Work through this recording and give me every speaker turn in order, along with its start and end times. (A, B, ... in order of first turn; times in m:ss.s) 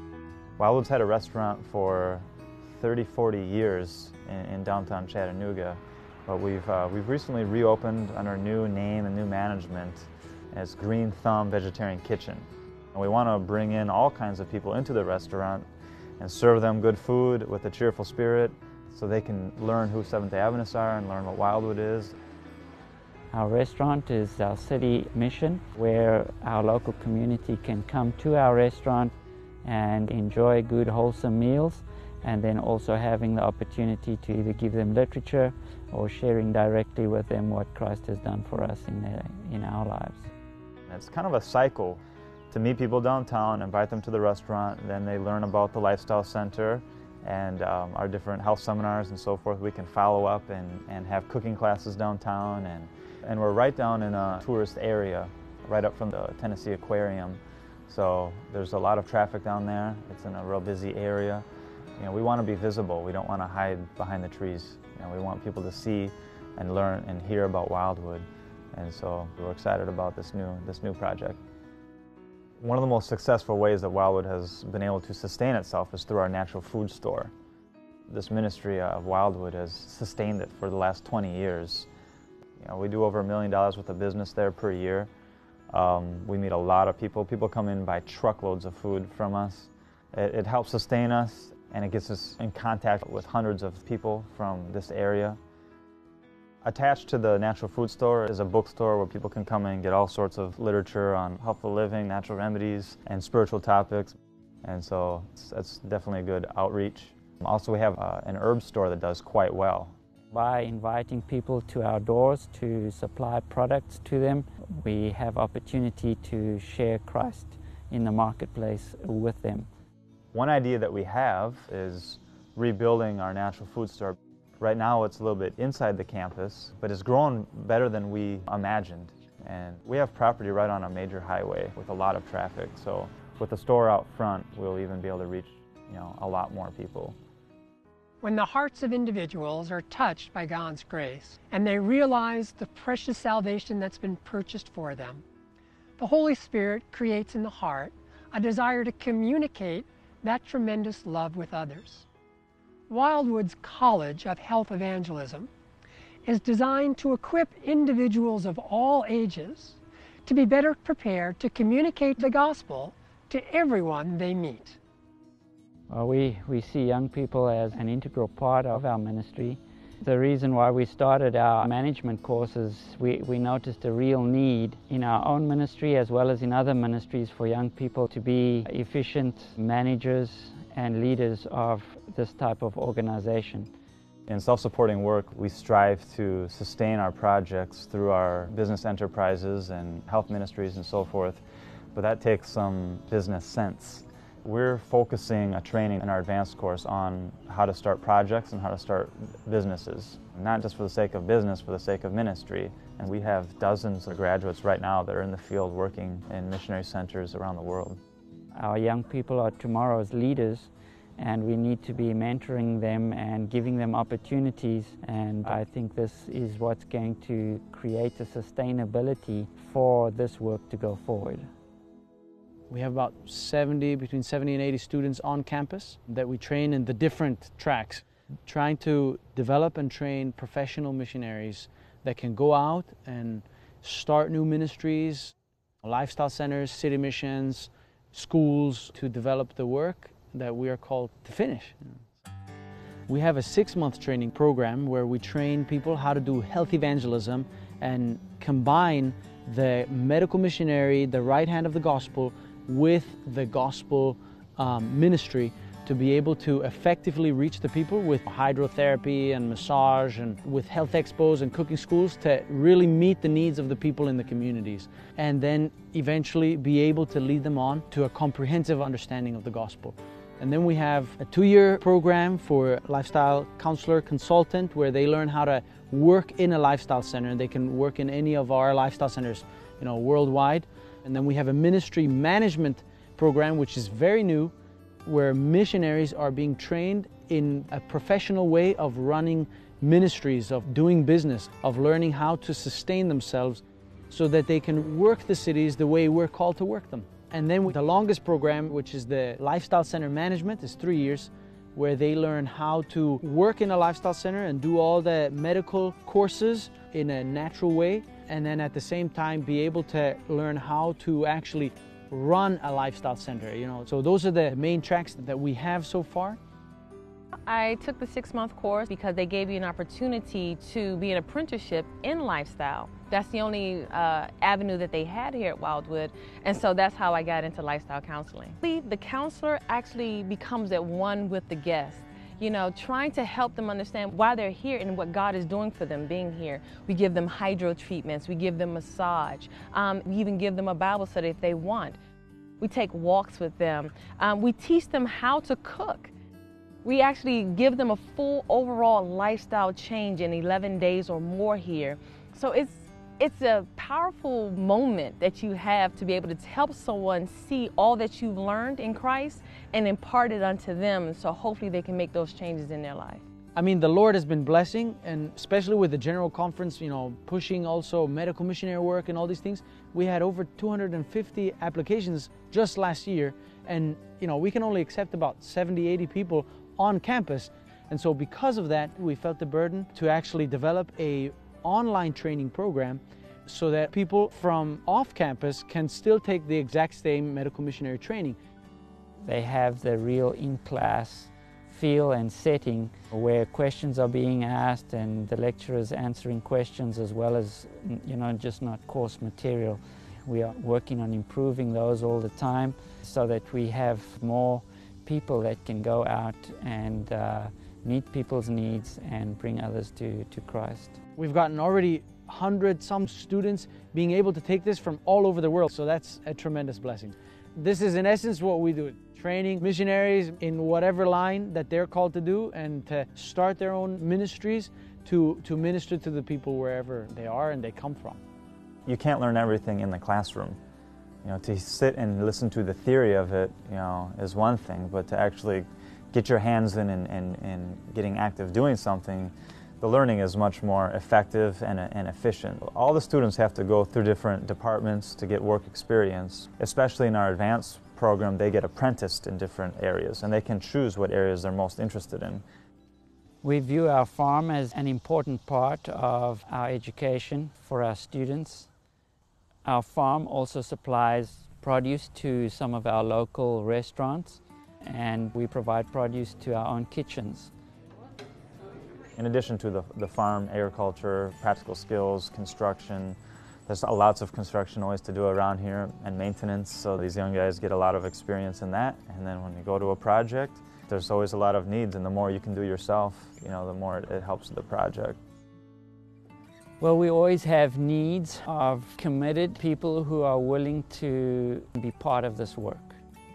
0:00.6-0:15.7 A
0:16.2-0:22.1 A
0:23.3-0:29.1 B
0:29.6-0:40.3 B
0:40.9-1:01.4 A
1:02.0-1:11.4 A
1:12.6-1:17.3 A
1:18.1-1:21.9 A
1:22.6-1:25.1 A
1:25.7-1:35.4 A
1:36.6-1:49.9 A
1:50.3-1:59.7 B
2:00.3-2:17.2 A
2:18.2-2:25.2 C
2:26.0-2:32.0 C
2:32.9-2:35.5 C
2:36.2-2:44.8 C
2:45.9-3:03.7 B
3:04.3-3:11.4 A
3:11.9-3:28.0 A
3:28.5-3:41.5 B
3:42.7-4:02.0 D
4:03.1-4:44.5 D
4:45.0-5:16.4 D
5:17.5-5:42.0 E
5:42.6-5:46.1 E
5:46.8-6:03.2 E
6:03.6-6:28.4 D
6:29.2-6:51.0 B
6:51.2-7:08.2 D
7:08.8-7:10.6 A
7:11.2-7:32.4 A
7:33.4-7:38.7 B
7:39.6-7:47.5 B
7:49.1-8:05.2 A
8:06.8-8:13.0 B